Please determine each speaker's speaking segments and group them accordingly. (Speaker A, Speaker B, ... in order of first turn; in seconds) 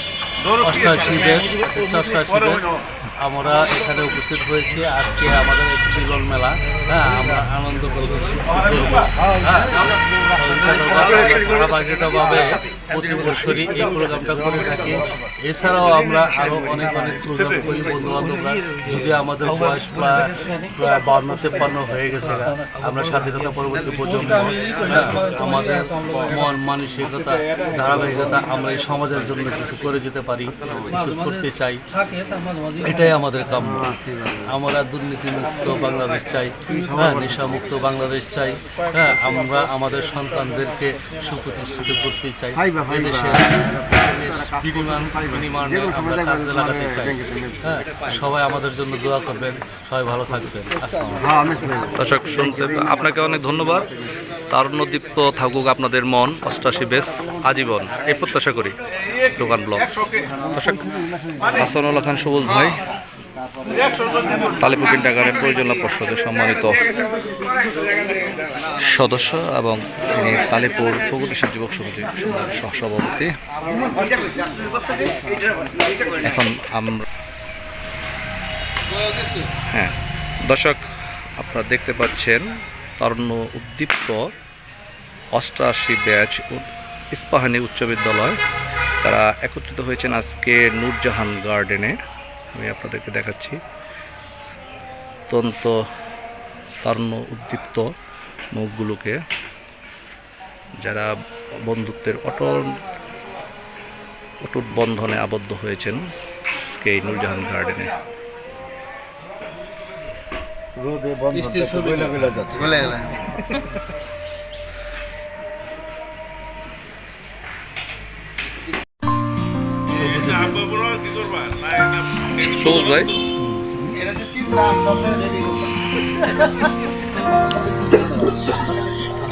Speaker A: 0.6-31.8, 32.7-51.8, 111.4-112.0, 119.9-120.8, 123.5-123.9
Speaker B: 51.8-53.9, 54.5-60.9, 61.6-62.8, 64.5-66.8, 68.7-73.3, 76.1-77.0, 79.7-79.9, 80.4-80.8, 81.4-84.3, 85.3-88.4, 89.0-92.0, 92.5-93.6, 95.3-95.8, 96.8-97.9, 98.5-99.2, 100.8-101.1, 101.6-102.7, 104.4-106.1, 106.6-107.9, 122.3-123.2
Speaker C: 110.8-113.6, 124.1-125.7